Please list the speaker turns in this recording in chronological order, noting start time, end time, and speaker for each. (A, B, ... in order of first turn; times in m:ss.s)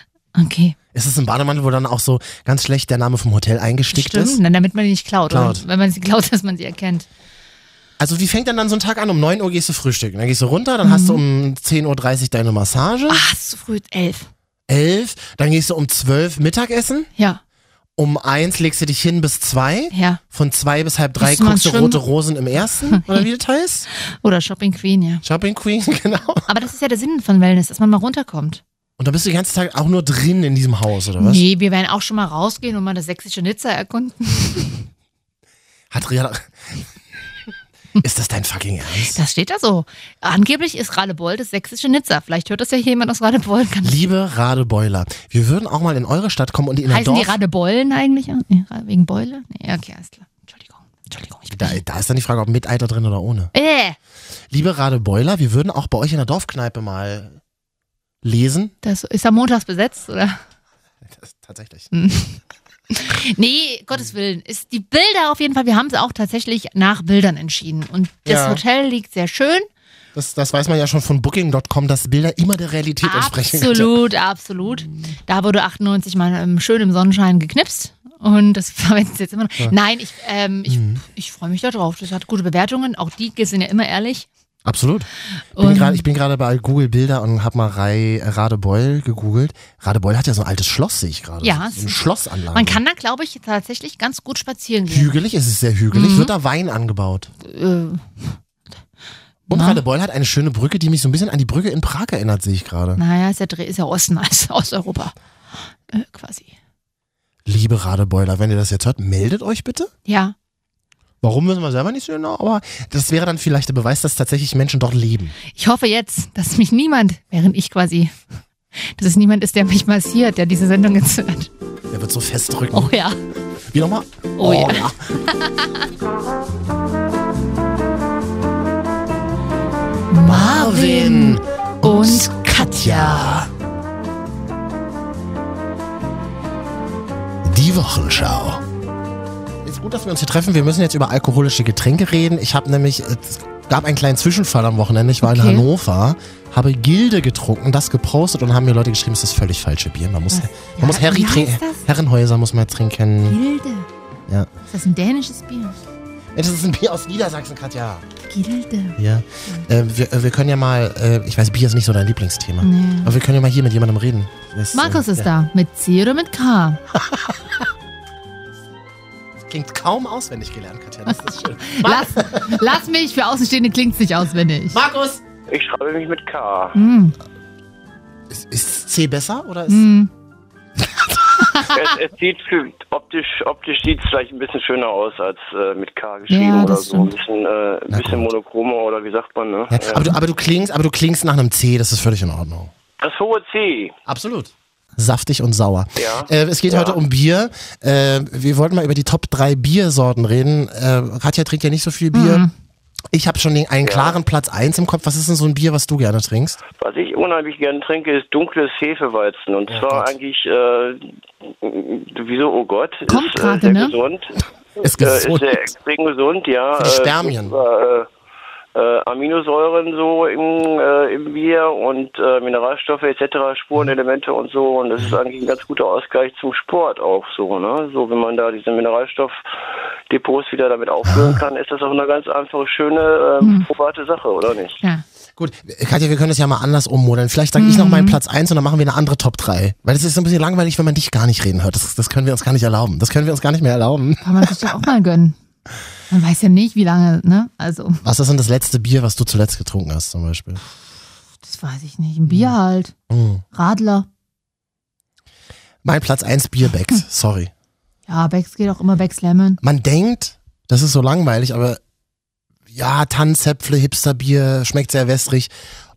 0:00.3-0:00.8 A
0:00.9-0:04.4 B
0:03.9-0:07.1 A
0:05.3-0:05.6 B
0:08.0-0:13.2 B
0:10.8-0:11.2 A
0:13.1-0:14.3 A
0:14.7-0:17.1 B
0:18.0-0:23.9 B
0:19.9-0:20.2 A
0:21.2-0:22.0 A
0:22.9-0:23.2 A
0:24.1-0:25.2 A
0:25.2-0:26.5 B
0:26.4-0:28.6 A
0:29.0-0:31.4 B
0:31.2-0:34.8 A
0:35.9-0:36.8 B
0:38.0-0:39.2 B
0:39.0-0:44.0 A
0:43.8-0:47.4 B
0:46.9-0:51.8 A
0:51.5-0:53.5 B
0:53.5-0:54.0 A
0:54.5-0:57.4 B
0:58.2-0:58.7 B
0:58.8-1:00.4 A
1:01.0-1:01.9 B
1:01.9-1:09.7 A
1:08.2-1:08.6 B
1:10.1-1:14.0 B
1:13.0-1:24.3 A
1:20.7-1:21.0 B
1:24.6-1:32.8 B
1:25.6-1:26.0 A
1:31.4-1:35.2 A
1:34.9-1:37.3 B
1:35.9-1:36.3 A
1:37.4-1:38.4 A
1:39.5-1:39.8 A
1:39.5-1:43.0 B
1:43.0-1:45.1 A
1:45.9-1:46.5 A
1:47.4-1:49.9 B
1:50.0-1:50.3 A
1:51.2-1:55.4 B
1:55.5-1:58.2 A
1:58.8-2:01.5 A
2:01.9-2:02.9 B
2:02.7-2:03.2 A
2:03.7-2:05.1 B
2:04.4-2:05.9 A
2:10.1-2:13.4 A
2:10.2-2:13.5 B
2:17.4-2:18.6 B
2:19.6-2:33.4 B
2:25.2-2:25.7 A
2:30.3-2:31.8 A
2:33.2-2:33.9 A
2:34.7-2:35.8 A
2:36.3-2:38.0 B
2:38.3-2:39.0 A
2:39.0-2:45.3 B
2:42.6-2:43.2 A
2:44.7-2:46.8 A
2:46.9-2:47.6 B
2:49.5-2:52.7 B
2:51.1-2:54.8 A
2:54.7-2:55.2 B
2:55.5-2:56.8 C
2:56.7-2:57.2 A
2:58.3-2:59.9 B
2:59.7-3:00.1 A
3:00.8-3:01.5 B
3:01.4-3:01.8 A
3:01.6-3:10.1 C
3:06.3-3:07.1 A
3:07.9-3:08.3 B
3:09.7-3:12.7 B
3:13.0-3:13.9 C
3:14.1-3:22.4 B
3:16.0-3:17.0 C
3:22.1-3:22.5 A
3:23.1-3:26.6 B
3:23.8-3:24.1 C
3:26.8-3:38.1 C
3:29.7-3:30.1 B
3:33.1-3:34.0 A
3:34.8-3:35.7 B
3:36.8-3:37.5 B
3:38.7-3:49.4 C
3:50.1-3:54.8 C
3:51.0-3:51.4 B
3:53.4-3:53.7 A
3:55.4-4:04.7 B
3:57.6-3:58.2 A
4:04.2-4:05.4 A
4:06.1-4:08.0 A
4:08.0-4:10.6 B
4:11.4-4:12.9 A
4:12.2-4:12.5 B
4:13.1-4:13.4 B
4:13.5-4:14.1 A
4:15.8-4:17.5 B
4:18.1-4:19.6 A
4:19.6-4:21.8 B
4:22.7-4:25.5 B